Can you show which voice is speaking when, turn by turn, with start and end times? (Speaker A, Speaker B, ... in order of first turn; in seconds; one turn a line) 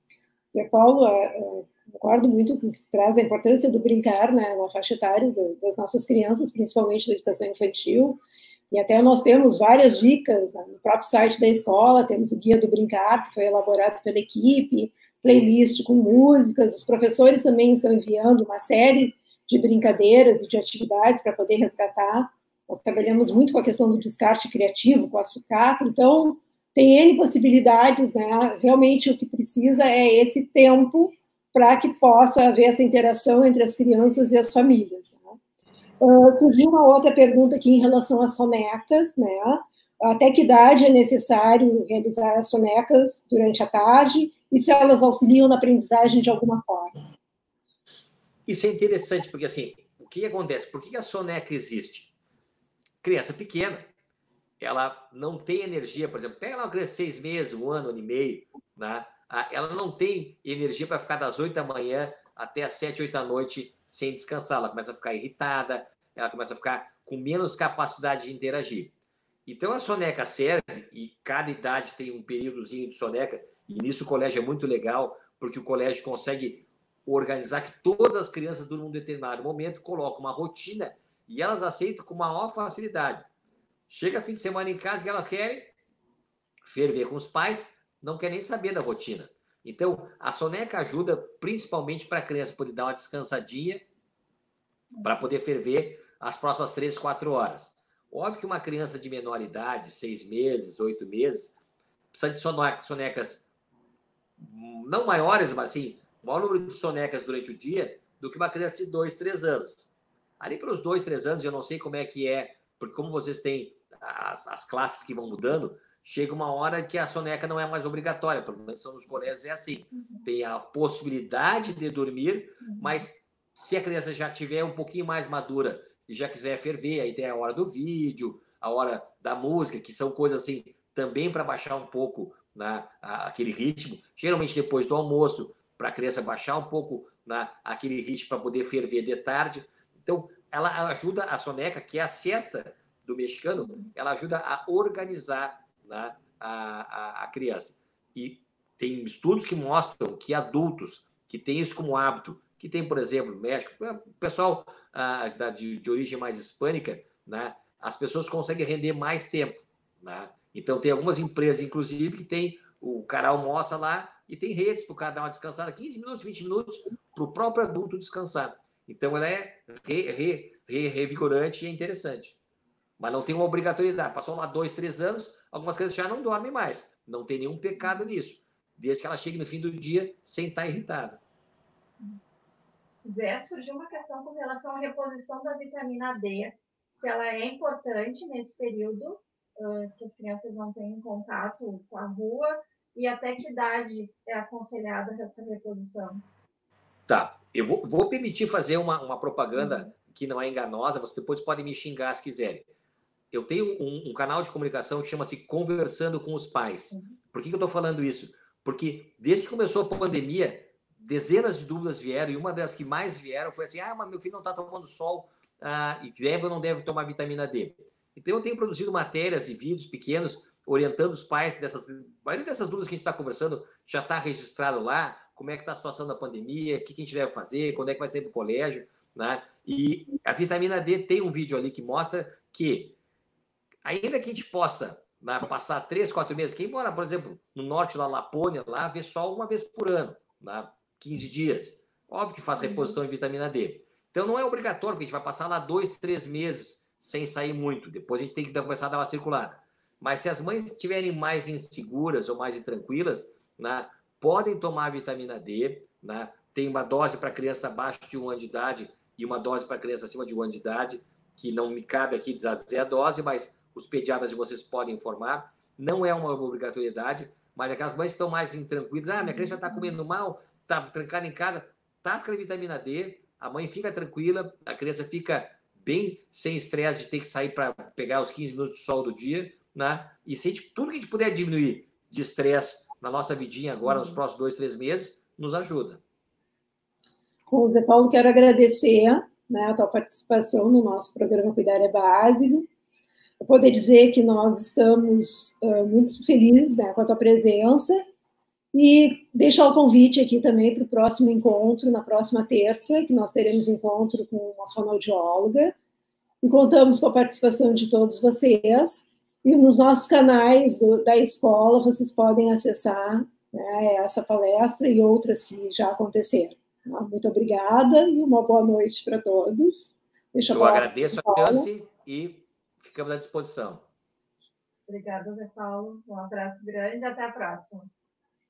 Speaker A: 0.5-35.4
Speaker A: 36.0-46.9
Speaker B: 48.5-52.1
Speaker B: 53.0-53.9
Speaker B: 54.6-68.9
Speaker B: 69.5-83.3
Speaker B: 83.9-85.7
Speaker B: 86.7-93.8
Speaker C: 94.9-95.2
Speaker B: 95.0-101.5
Speaker B: 102.1-103.5
Speaker B: 104.4-172.4
Speaker C: 119.9-120.2
Speaker C: 122.6-123.0
Speaker B: 173.0-181.2
Speaker C: 183.0-196.2
Speaker B: 197.1-202.7
Speaker C: 199.6-199.9
Speaker B: 203.3-233.0
Speaker B: 233.8-286.0
Speaker C: 242.6-243.0
Speaker C: 269.2-269.9
Speaker A: 287.5-292.7
Speaker A: 293.4-298.0
Speaker A: 298.7-305.7
Speaker A: 306.4-321.7
Speaker B: 320.5-323.9
Speaker C: 324.9-327.9